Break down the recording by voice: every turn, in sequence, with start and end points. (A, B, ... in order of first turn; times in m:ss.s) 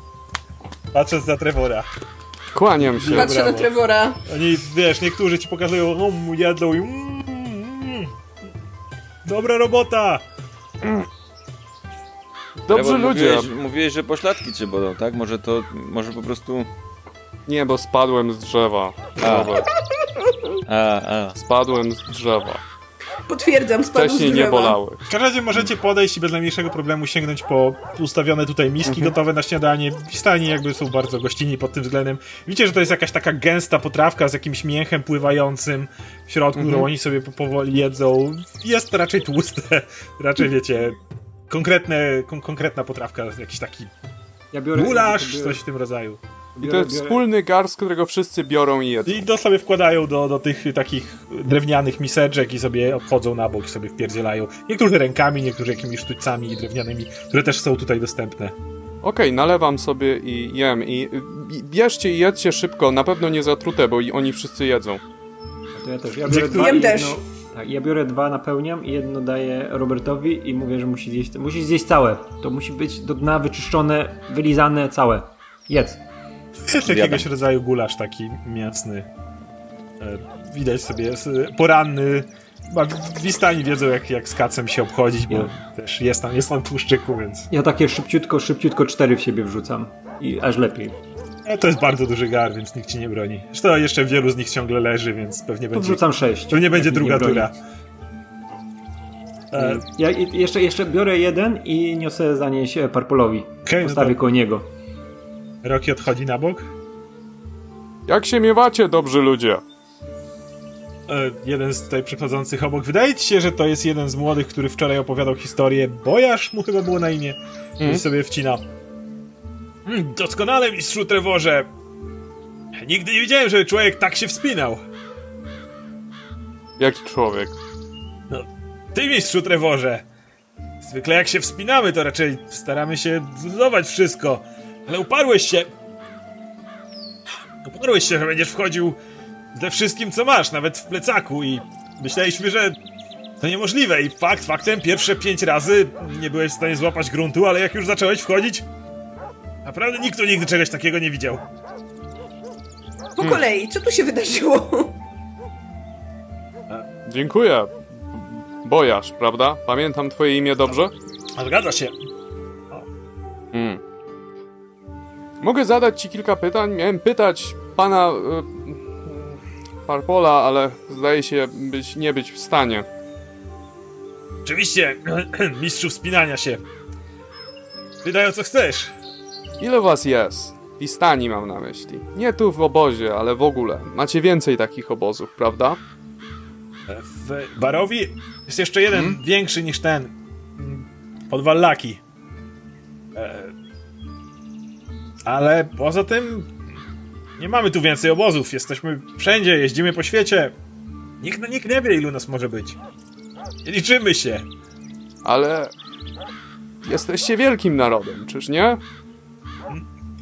0:00.9-0:01.9 A
0:02.5-0:03.3 B
0:02.8-0:03.7 A
0:03.1-0:04.2 C
0:04.2-0:08.1 A
0:09.3-0:10.2 A
0:12.7-0:13.5 B
0:12.7-0:16.7 D
0:17.5-0:19.7 B
0:19.2-0:19.6 D
0:20.2-0:20.6 C
0:20.7-0:21.4 D
0:21.4-0:22.6 B
0:23.3-0:24.8 C
0:23.9-0:25.0 B
0:25.1-0:41.0 A
0:28.9-0:29.1 B
0:36.6-0:36.9 B
0:41.5-0:43.9 A
0:44.5-0:45.6 E
0:44.8-0:46.2 A
0:46.6-0:47.2 E
0:46.6-0:49.2 B
0:49.0-0:58.6 A
0:59.0-1:05.0 B
1:05.7-1:16.0 E
1:06.2-1:06.8 A
1:06.5-1:07.2 C
1:16.7-1:19.1 A
1:16.8-1:17.3 D
1:20.0-1:27.5 A
1:27.5-1:31.0 E
1:31.4-1:37.6 A
1:35.7-1:37.5 E
1:39.5-1:39.8 A
1:39.6-1:44.7 E
1:43.7-1:44.2 A
1:45.6-1:46.7 A
1:48.1-1:49.6 B
1:51.1-1:58.6 A
1:59.9-2:01.7 A
2:02.8-2:04.8 A
2:06.8-2:07.6 B
2:08.3-2:10.0 A
2:10.8-2:15.7 A
2:17.6-2:19.0 A
2:19.5-2:22.8 A
2:23.4-2:28.6 A
2:29.6-2:31.4 A
2:33.2-2:35.0 C
2:37.0-2:40.9 B
2:41.4-2:41.9 A
2:43.5-2:43.8 B
2:45.4-2:52.9 B
2:54.4-2:56.6 A
2:58.0-2:58.9 A
2:59.6-3:05.8 B
3:06.9-3:12.0 A
3:08.9-3:09.2 B
3:13.2-3:13.5 A
3:15.2-3:16.5 A
3:17.4-3:20.6 A
3:21.2-3:22.8 A
3:23.6-3:24.5 A
3:25.2-3:25.7 B
3:26.8-3:28.8 B